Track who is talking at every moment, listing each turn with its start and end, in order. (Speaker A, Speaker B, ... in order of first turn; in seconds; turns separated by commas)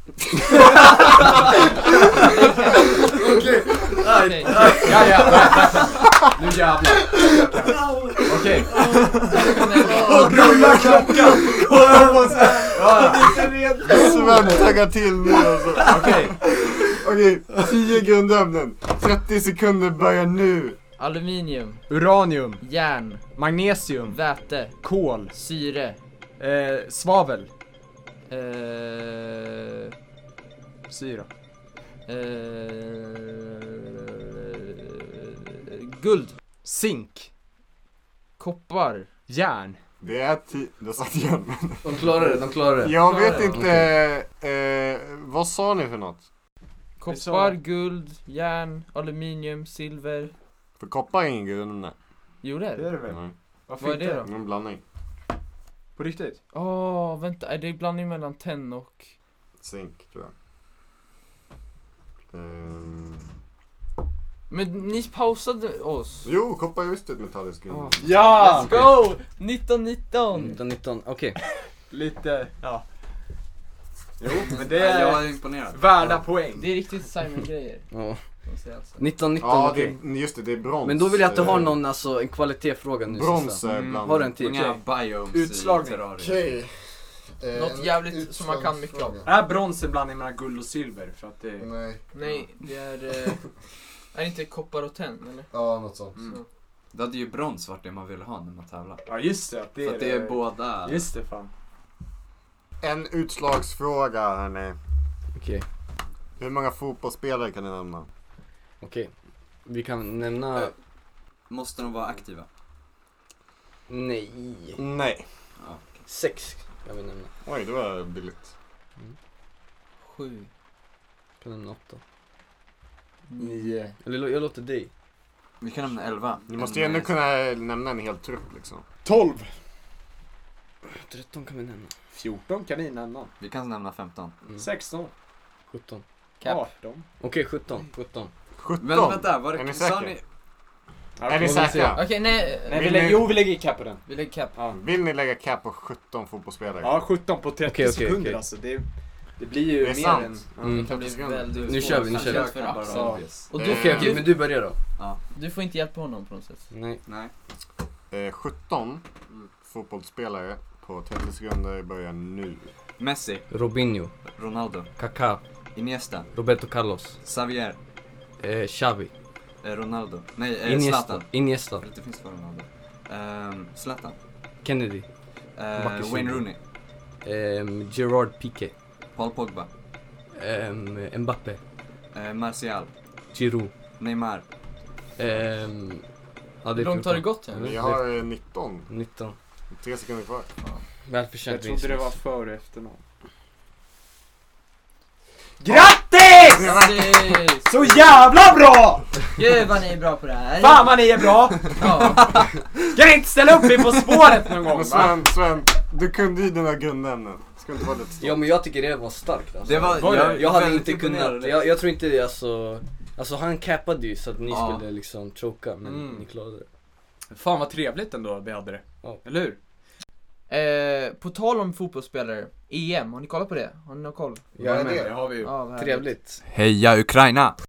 Speaker A: 0.7-1.6, Speaker B: 2.2-2.6, Speaker C: 3.1-5.5, Speaker D: 3.2-13.4, Speaker B: 4.0-4.6, Speaker A: 8.8-9.3, Speaker B: 9.2-10.6, Speaker E: 9.9-20.8, Speaker C: 10.3-11.1, Speaker C: 13.1-13.4, Speaker C: 14.0-14.4, Speaker D: 15.8-16.4, Speaker B: 21.0-21.9, Speaker D: 21.9-22.6, Speaker B: 22.6-23.3, Speaker D: 23.4-25.3, Speaker B: 24.1-24.8, Speaker B: 25.3-26.0, Speaker D: 26.4-27.5, Speaker B: 28.3-29.9, Speaker D: 30.9-31.3, Speaker B: 32.1-33.6, Speaker B: 34.5-36.4, Speaker D: 36.6-37.3, Speaker B: 38.4-39.1, Speaker D: 39.3-39.8, Speaker E: 40.0-46.2, Speaker C: 41.8-44.0, Speaker B: 43.0-43.6, Speaker B: 47.0-50.3, Speaker D: 47.1-47.6, Speaker E: 50.8-52.0, Speaker B: 52.4-53.0, Speaker D: 52.8-54.2, Speaker E: 53.1-53.3, Speaker B: 53.8-54.3, Speaker E: 54.2-54.8, Speaker D: 56.0-56.4, Speaker B: 56.5-59.1, Speaker E: 59.6-60.3, Speaker E: 62.3-63.2, Speaker B: 64.5-66.3, Speaker E: 66.2-68.2, Speaker B: 67.8-70.6, Speaker D: 68.0-68.8, Speaker C: 70.3-71.4, Speaker D: 71.9-72.8, Speaker D: 74.2-76.7, Speaker A: 74.6-75.9, Speaker B: 76.6-77.9, Speaker C: 77.9-78.2, Speaker B: 78.5-79.0, Speaker C: 79.0-80.0, Speaker E: 79.4-81.8, Speaker C: 80.8-84.8, Speaker E: 83.1-84.3, Speaker A: 84.3-86.5, Speaker D: 85.3-86.0, Speaker E: 86.2-89.3, Speaker B: 87.5-89.1, Speaker D: 89.2-91.7, Speaker E: 91.6-92.0, Speaker B: 92.1-93.5, Speaker B: 94.1-95.5, Speaker E: 95.5-96.2, Speaker B: 96.2-96.5, Speaker A: 96.9-99.0, Speaker D: 99.1-101.5, Speaker A: 99.8-101.0, Speaker E: 102.8-104.8, Speaker C: 105.3-105.7, Speaker E: 106.4-108.1, Speaker C: 108.8-109.1, Speaker C: 109.7-110.7, Speaker A: 111.5-112.5, Speaker C: 113.9-114.8, Speaker D: 114.8-115.3, Speaker A: 115.6-116.0, Speaker C: 116.1-117.3, Speaker E: 117.4-118.5, Speaker B: 120.0-120.5, Speaker C: 121.4-122.0, Speaker B: 123.3-123.8, Speaker D: 123.4-123.9, Speaker C: 124.0-124.9, Speaker A: 125.6-127.2, Speaker E: 126.5-128.8, Speaker D: 129.0-129.5, Speaker C: 130.8-131.9, Speaker D: 132.1-133.3, Speaker A: 133.4-134.4, Speaker D: 134.6-135.1, Speaker C: 135.7-136.0, Speaker B: 136.4-136.7, Speaker D: 136.4-137.1, Speaker C: 137.2-138.3, Speaker E: 138.6-140.2, Speaker A: 138.8-140.2, Speaker D: 141.2-141.8, Speaker E: 141.3-142.1, Speaker C: 141.4-142.0, Speaker B: 141.9-143.0, Speaker D: 142.7-144.0, Speaker E: 142.7-143.3, Speaker B: 144.1-144.6, Speaker E: 144.7-147.0, Speaker D: 146.8-148.9, Speaker C: 147.7-148.4, Speaker D: 149.4-150.9, Speaker E: 149.7-151.9, Speaker C: 150.6-150.9, Speaker B: 150.7-154.3, Speaker C: 151.7-152.5, Speaker A: 151.8-153.5, Speaker D: 152.8-153.2, Speaker E: 153.5-154.4, Speaker C: 153.5-154.8, Speaker B: 155.3-156.7, Speaker C: 156.7-157.0, Speaker A: 157.1-157.3, Speaker E: 158.1-159.1, Speaker E: 159.6-162.7, Speaker A: 163.0-163.5, Speaker C: 163.5-164.2, Speaker A: 164.3-164.9, Speaker C: 165.0-165.4, Speaker A: 165.8-166.3, Speaker C: 166.3-167.2, Speaker A: 167.2-167.8, Speaker C: 168.4-169.1, Speaker A: 169.6-174.2, Speaker C: 170.6-171.8, Speaker C: 174.6-175.1, Speaker A: 175.6-176.6, Speaker C: 175.8-176.5, Speaker C: 177.2-178.7, Speaker A: 179.2-179.7, Speaker C: 180.3-181.6, Speaker A: 182.1-182.9, Speaker C: 183.3-183.8, Speaker A: 184.0-184.4, Speaker C: 185.2-186.1, Speaker C: 186.6-188.2, Speaker B: 186.8-187.7, Speaker E: 187.6-188.9, Speaker C: 188.9-189.4, Speaker E: 189.7-190.5, Speaker C: 191.1-192.2, Speaker D: 191.5-193.0, Speaker D: 195.6-196.8, Speaker E: 196.5-197.5, Speaker B: 196.5-197.7, Speaker D: 197.6-199.1, Speaker B: 199.4-201.0, Speaker D: 200.6-205.2, Speaker B: 201.7-202.3, Speaker E: 204.7-208.5, Speaker C: 208.2-216.7, Speaker A: 209.6-211.7, Speaker D: 209.9-210.6, Speaker A: 214.5-214.8, Speaker D: 215.8-216.2, Speaker D: 217.3-219.6, Speaker B: 220.5-224.4, Speaker C: 224.6-226.4, Speaker E: 224.6-225.1, Speaker D: 224.6-225.5, Speaker B: 225.4-226.1, Speaker A: 226.5-227.6